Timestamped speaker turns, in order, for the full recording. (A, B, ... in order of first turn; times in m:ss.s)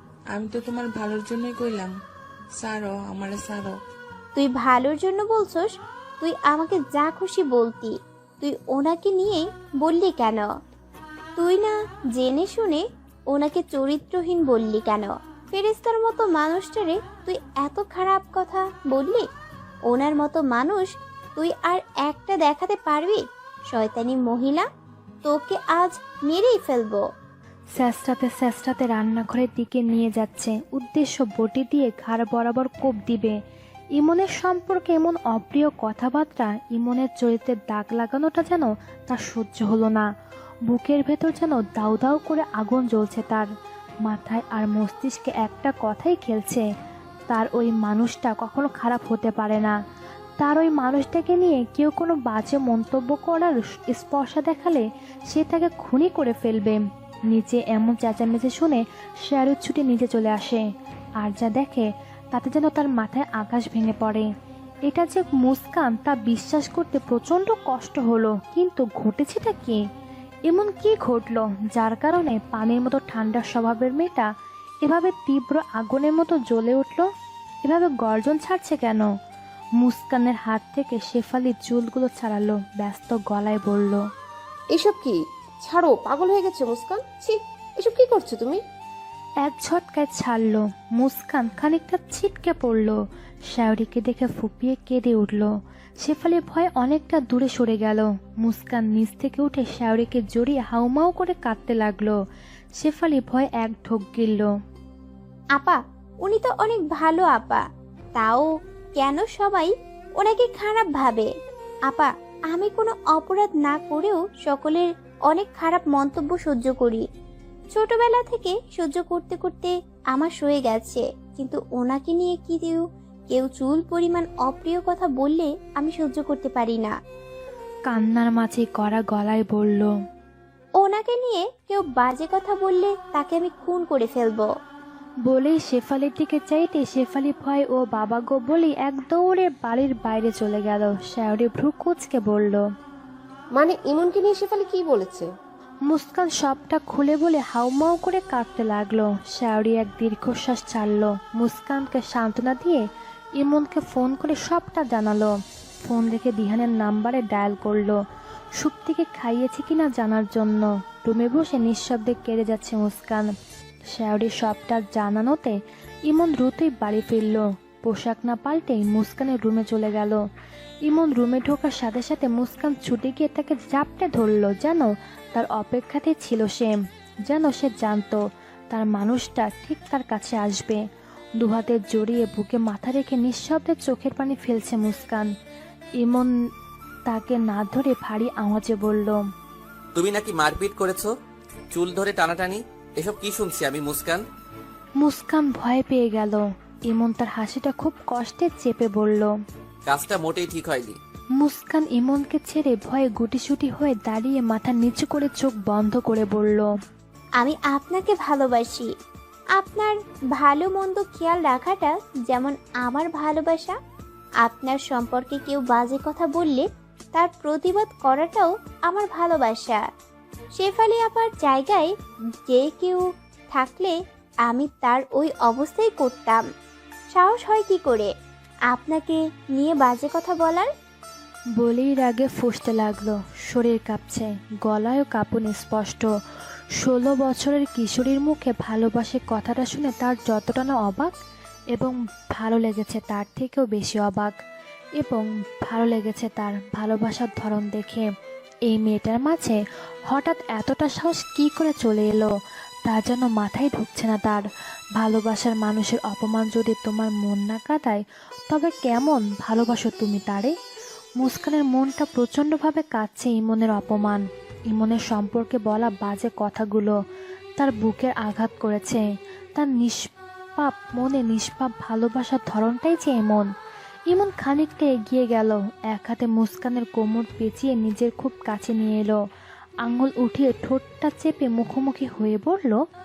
0:00.3-0:01.9 A
0:02.6-0:03.7 A
0:04.4-0:05.7 B
0:06.2-0:10.5 B
0:11.4-0:12.8 B
0:13.3-0:19.2 B
0:19.9-0:23.2 B
0:23.7-0:24.6 B
0:25.2-0:27.0 B
0:27.8-0:33.4 C
0:34.0-0:40.1 C
0:40.7-0:43.5 C
0:44.0-0:46.6 C
0:47.3-0:49.8 C
0:50.4-1:00.6 C
1:01.2-1:04.3 C
1:04.8-1:09.8 C
1:10.5-1:14.3 C
1:14.8-1:17.1 C
1:17.6-1:19.0 C
1:19.8-1:24.0 C
1:24.7-1:28.6 D
1:29.4-1:33.0 C
1:33.5-1:35.5 C
1:36.0-1:42.2 C
1:42.8-1:44.5 C
1:45.6-1:47.6 B
1:48.2-1:51.3 B
1:51.9-1:57.0 B
1:57.7-2:06.9 B
2:07.9-2:09.9 C
2:10.8-2:14.5 B
2:15.2-2:22.6 C
2:23.5-2:25.3 D
2:25.9-2:32.8 C
2:33.4-2:38.0 C
2:38.6-2:43.3 C
2:43.9-2:50.2 C
2:50.8-3:00.8 C
3:01.4-3:05.3 C
3:06.0-3:06.3 C
3:07.1-3:09.2 C
3:09.9-3:11.1 E
3:11.7-3:14.2 E
3:15.0-3:19.3 C
3:19.9-3:21.0 E
3:21.4-3:26.7 C
3:27.4-3:28.9 B
3:29.6-3:33.7 B
3:34.4-3:39.8 B
3:40.6-3:41.9 B
3:42.5-3:43.0 B
3:43.5-3:43.9 B
3:44.4-3:46.4 B
3:47.1-3:48.1 B
3:48.7-3:50.7 B
3:51.6-3:56.1 C
3:56.8-4:01.1 C
4:01.7-4:04.3 C
4:05.0-4:08.1 C
4:08.7-4:12.3 C
4:12.9-4:14.4 C
4:15.0-4:20.5 C
4:21.2-4:27.0 C
4:27.6-4:29.0 C
4:29.6-4:30.0 C
4:30.6-4:33.5 C
4:34.1-4:39.2 C
4:39.8-4:42.8 C